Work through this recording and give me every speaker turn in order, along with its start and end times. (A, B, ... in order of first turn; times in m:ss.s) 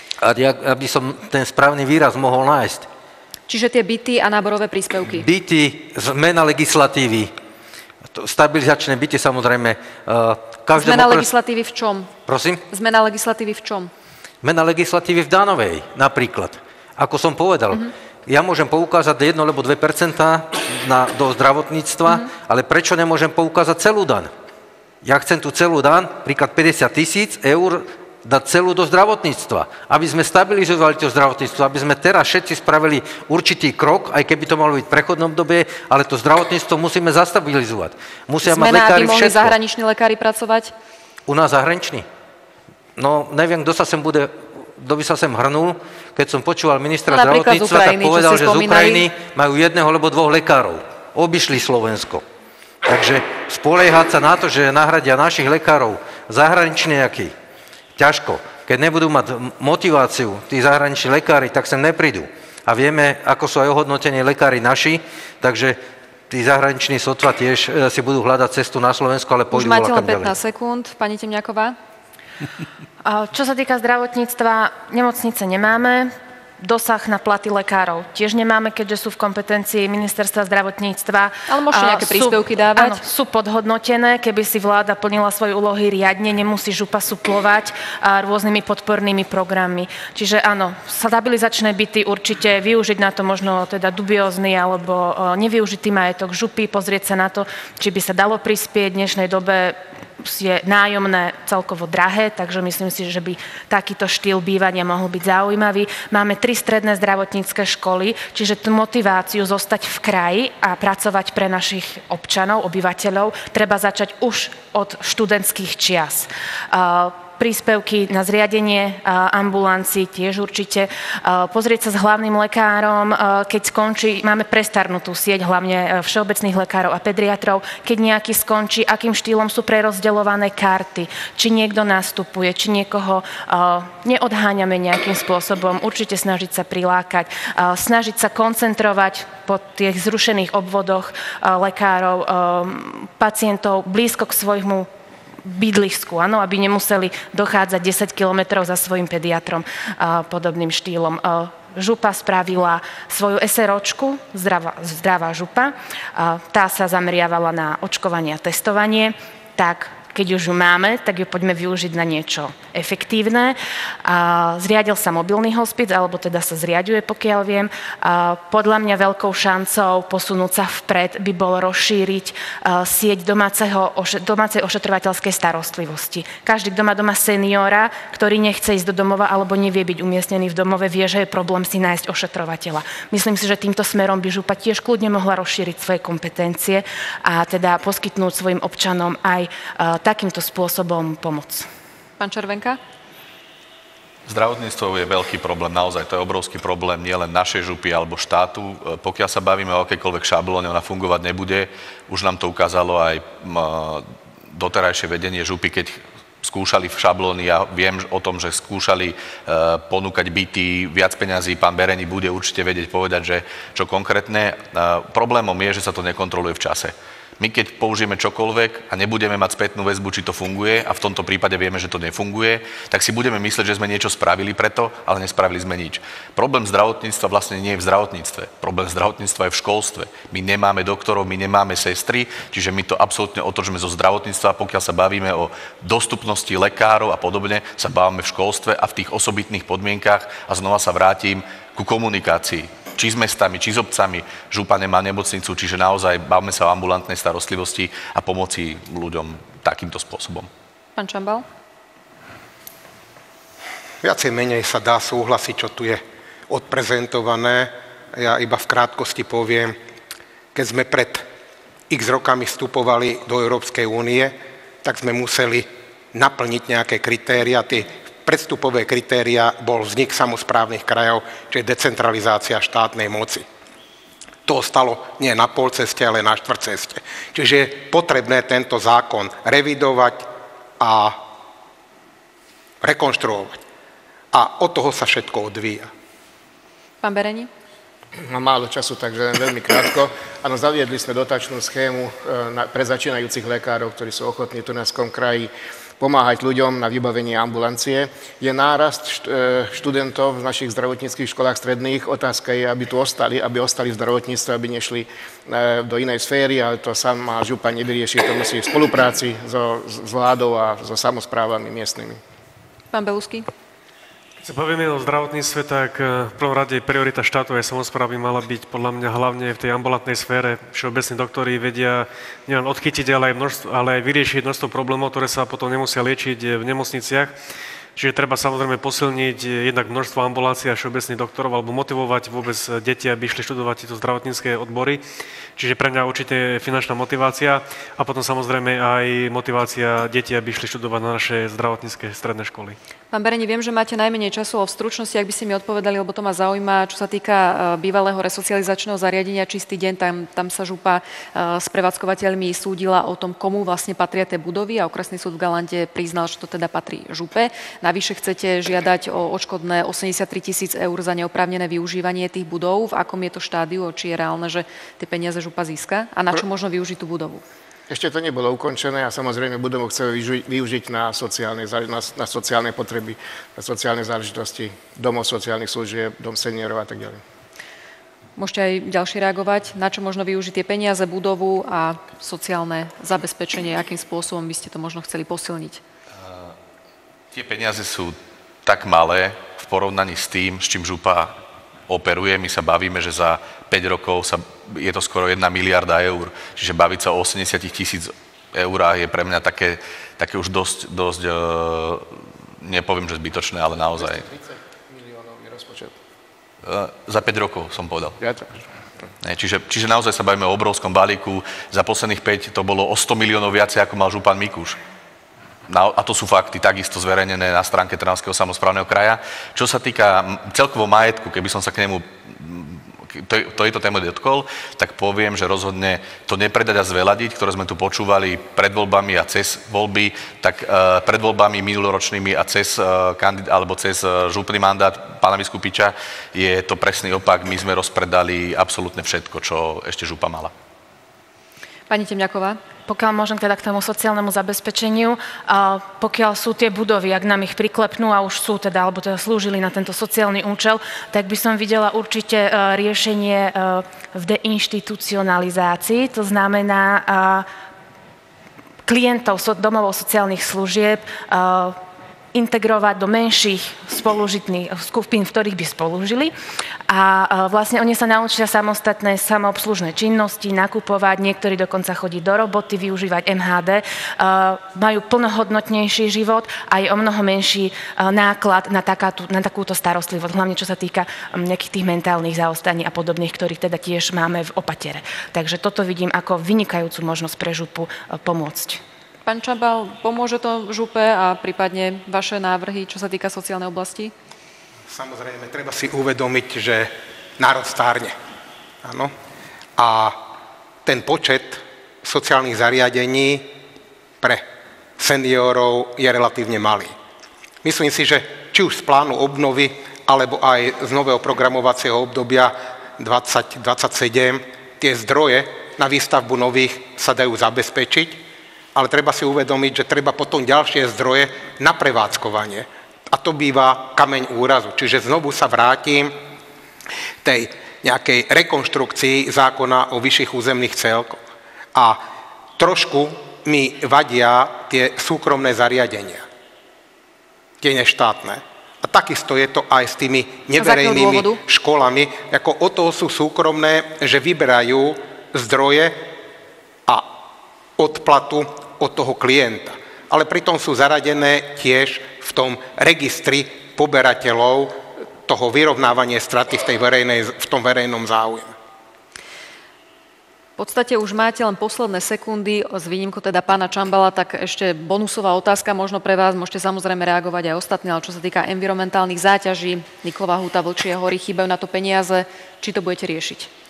0:00.2-0:02.9 A
0:03.5-0:05.3 B
0:05.2-0:07.3 A
0:08.1-0:11.3 A
0:10.7-0:12.1 B
0:12.2-0:12.6 A
0:12.7-0:13.9 B
0:14.4-0:24.3 A
0:25.0-0:39.6 A
0:38.4-0:40.7 B
0:41.3-0:42.1 A
0:43.0-0:52.2 A
0:47.1-0:49.1 B
0:52.8-0:57.3 A
0:58.0-1:10.4 A
1:09.5-1:11.8 B
1:13.0-2:24.9 C
1:21.5-1:23.0 B
2:25.4-3:11.7 C
3:12.2-3:12.8 B
3:14.2-4:10.5 D
4:11.0-4:11.4 B
4:14.0-4:19.8 E
4:20.5-4:21.2 E
4:21.9-4:33.4 E
4:34.4-4:40.3 E
4:40.8-4:41.2 E
4:42.8-4:43.6 E
4:44.3-4:45.9 E
4:47.0-4:47.5 B
4:48.2-5:12.2 F
5:12.9-5:13.5 B
5:14.4-5:27.4 G
5:27.9-5:35.0 G
5:35.6-5:42.8 G
5:43.1-6:07.4 B
6:07.9-6:17.2 F
6:18.4-6:25.8 B
6:26.2-6:26.5 D
6:27.3-6:31.4 D
6:31.9-6:44.3 D
6:44.0-6:45.9 F
6:46.6-6:48.2 D
6:48.2-6:48.6 F
6:49.2-6:54.8 D
6:55.7-7:20.5 D
7:21.9-7:22.6 B
7:22.8-7:37.5 C
7:38.8-7:41.8 C
7:42.3-7:46.3 C
7:46.9-8:08.8 C
8:09.2-8:14.1 B
8:14.9-8:18.2 E
8:18.8-8:19.1 E
8:19.8-8:20.2 E
8:20.8-8:23.6 E
8:25.0-8:26.9 E
8:27.6-8:38.2 E
8:38.7-8:46.2 E
8:47.2-8:51.2 E
8:51.7-8:52.0 E
8:52.6-8:56.2 E
8:57.6-9:06.1 E
9:00.6-9:01.4 B
9:06.9-9:07.2 E
9:07.8-9:18.5 E
9:20.6-9:33.5 B